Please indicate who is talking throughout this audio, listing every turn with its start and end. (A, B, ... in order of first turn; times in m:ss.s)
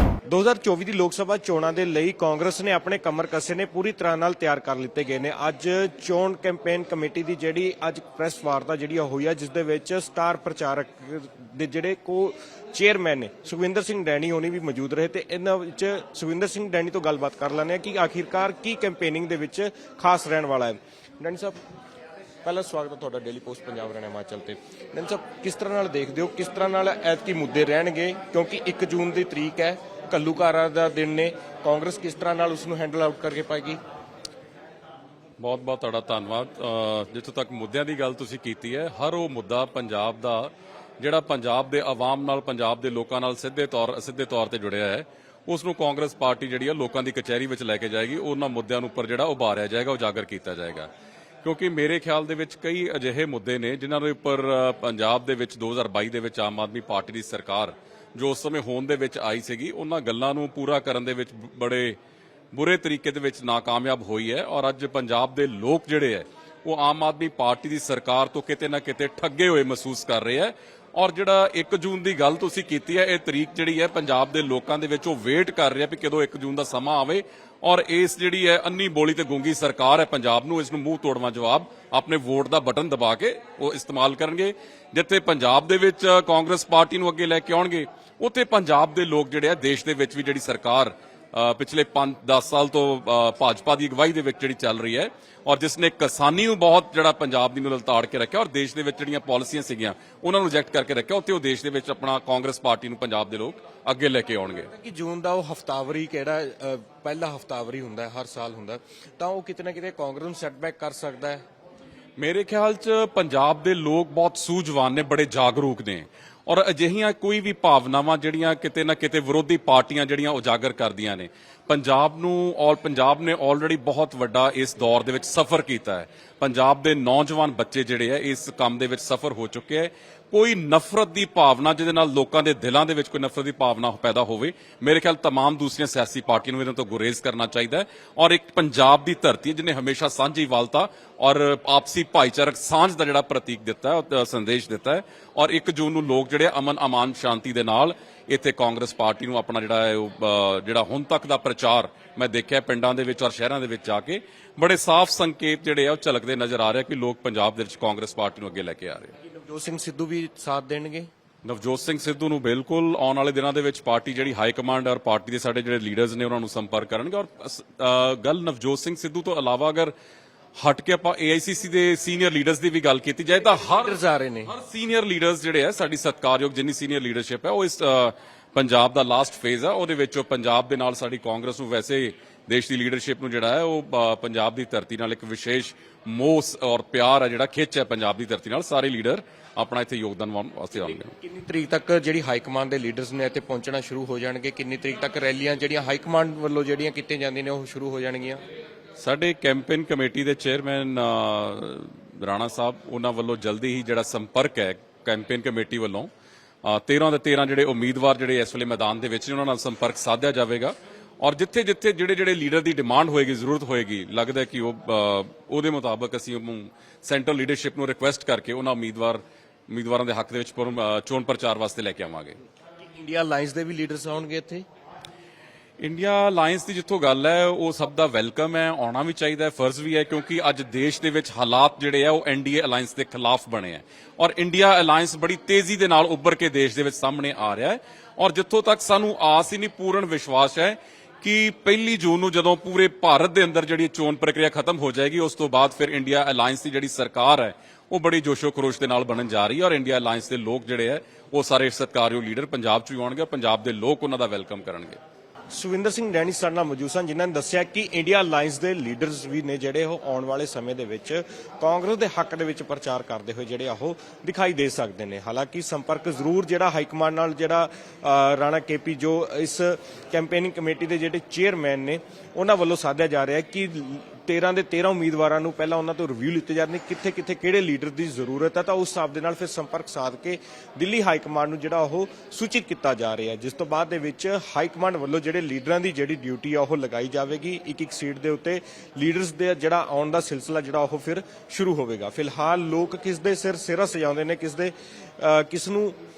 0:00.3-0:21.6 A
0:22.4-0:33.8 A
0:35.4-0:50.9 B
0:51.4-1:02.0 B
1:02.5-1:44.7 B
1:44.7-1:51.4 A
1:52.2-2:39.1 B
2:39.3-2:41.1 A
2:41.4-2:49.9 B
2:50.6-3:11.1 B
2:53.7-2:54.5 A
3:10.9-3:18.4 A
3:19.0-3:26.1 B
3:26.6-3:42.4 B
3:42.9-3:44.6 A
3:45.8-4:15.0 B
4:15.5-4:56.0 A